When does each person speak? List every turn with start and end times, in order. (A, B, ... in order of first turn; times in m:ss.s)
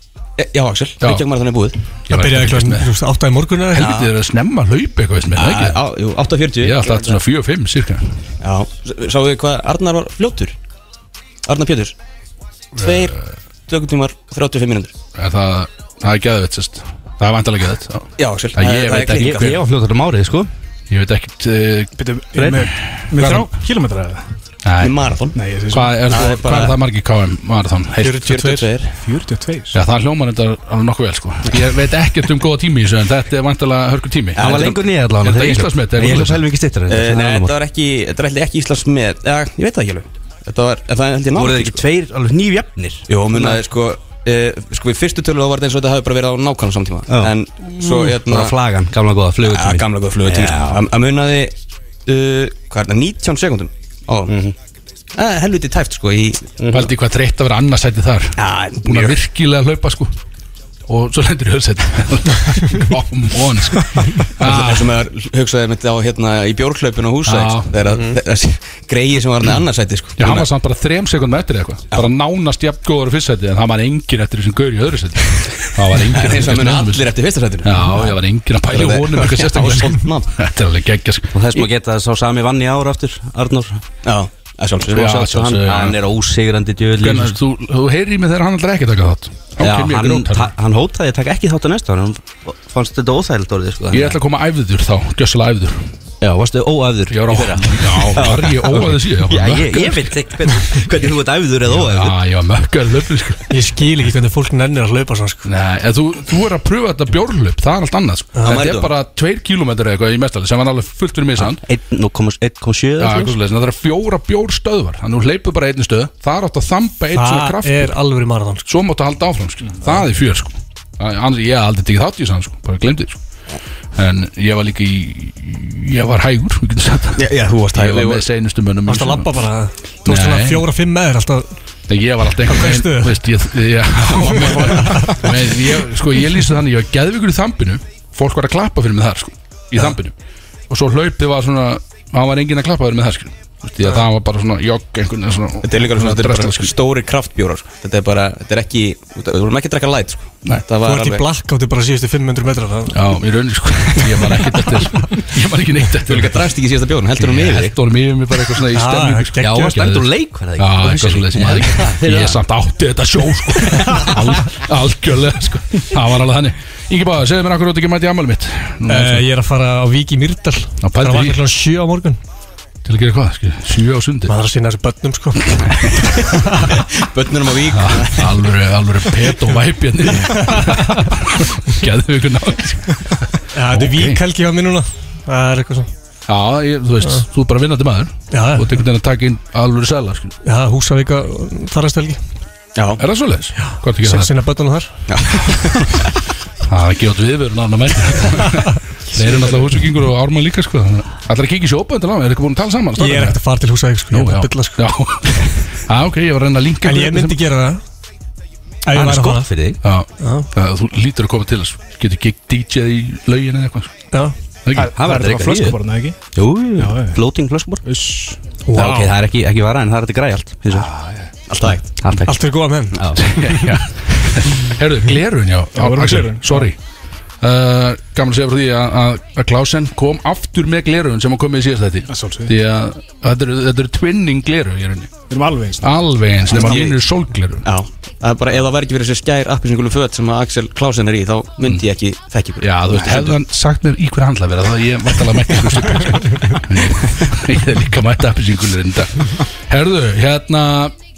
0:00.4-0:01.8 A
0:02.1-0:02.9 B
0:02.1-0:03.9 C
0:03.7-0:05.8 B
0:05.4-0:07.2 A
0:06.6-0:08.2 B
0:08.4-0:10.6 A
0:11.4-0:12.0 A
0:12.8-0:13.2 A
0:12.8-0:13.1 B
0:13.7-0:14.9 A
0:15.1-0:19.6 B
0:18.2-0:19.6 A
0:19.1-0:20.5 D
0:20.9-0:23.5 B
0:22.0-0:24.2 E
0:24.6-0:25.0 B
0:24.8-0:25.4 A
0:25.3-0:26.0 E
0:25.7-0:28.7 B
0:26.1-0:26.8 A
0:28.0-0:28.7 C
0:28.3-0:28.9 A
0:29.0-0:29.8 E
0:29.7-0:36.5 B
0:34.4-0:34.8 A
0:34.4-0:37.6 D
0:36.9-0:41.8 A
0:41.3-0:43.6 D
0:43.1-0:48.6 A
0:47.1-0:50.8 D
0:49.4-0:51.5 A
0:52.1-0:54.4 A
0:55.2-0:56.9 A
0:56.7-1:00.1 B
0:58.4-0:59.2 A
1:00.9-1:04.9 B
1:04.4-1:10.5 A
1:07.2-1:07.8 B
1:10.2-1:21.4 B
1:16.0-1:18.2 A
1:18.7-1:20.3 A
1:21.3-1:23.8 D
1:24.0-1:25.3 A
1:24.9-1:26.0 B
1:25.0-1:27.4 D
1:27.0-1:30.5 B
1:29.6-1:34.2 D
1:33.9-1:35.9 B
1:36.2-1:42.1 D
1:37.1-1:40.1 B
1:41.7-1:43.5 B
1:43.5-1:45.5 C
1:45.4-1:51.6 B
1:48.4-1:48.9 A
1:51.4-1:53.4 D
1:53.0-1:58.0 B
1:57.1-1:58.7 C
1:58.7-2:03.2 B
2:04.0-2:09.3 B
2:07.2-2:08.2 A
2:08.9-2:11.5 C
2:10.1-2:10.7 B
2:11.9-2:20.2 B
2:12.5-2:13.2 C
2:14.2-2:15.2 C
2:20.7-2:26.7 B
2:25.6-2:31.2 A
2:30.8-2:33.0 C
2:32.9-2:36.4 B
2:36.0-2:37.8 A
2:37.2-2:49.2 B
2:38.7-2:39.9 C
2:39.4-2:42.4 D
2:48.9-2:52.2 C
2:50.8-2:51.4 B
2:52.8-2:54.3 B
2:54.3-2:55.6 C
2:55.6-2:56.2 B
2:56.3-2:56.6 C
2:56.7-2:58.4 A
2:57.7-3:04.2 B
3:00.4-3:00.8 C
3:03.5-3:05.9 C
3:06.3-3:10.4 B
3:08.3-3:08.8 C
3:10.4-3:12.2 C
3:12.8-3:13.0 A
3:13.0-3:14.3 B
3:13.6-3:14.9 C
3:15.1-3:16.1 A
3:16.6-3:23.4 B
3:18.5-3:19.8 C
3:23.0-3:24.8 C
3:24.1-3:27.4 B
3:26.8-3:27.8 C
3:28.8-3:29.5 C
3:28.9-3:29.8 D
3:29.8-3:33.9 B
3:30.2-3:30.5 C
3:34.6-3:34.9 B
3:34.8-3:36.2 E
3:34.9-3:35.8 D
3:36.3-3:37.8 D
3:36.8-3:37.2 E
3:37.8-3:39.1 E
3:38.7-3:39.1 C
3:38.7-3:40.9 D
3:40.7-3:41.3 E
3:41.5-3:41.9 A
3:41.7-3:43.2 D
3:42.2-3:43.0 C
3:43.1-3:46.8 B
3:45.8-3:46.7 E
3:47.4-3:55.1 B
3:52.1-3:52.5 E
3:55.3-3:56.9 E
3:55.8-3:57.7 B
3:56.6-3:56.9 A
3:57.6-4:03.4 A
4:02.6-4:10.9 B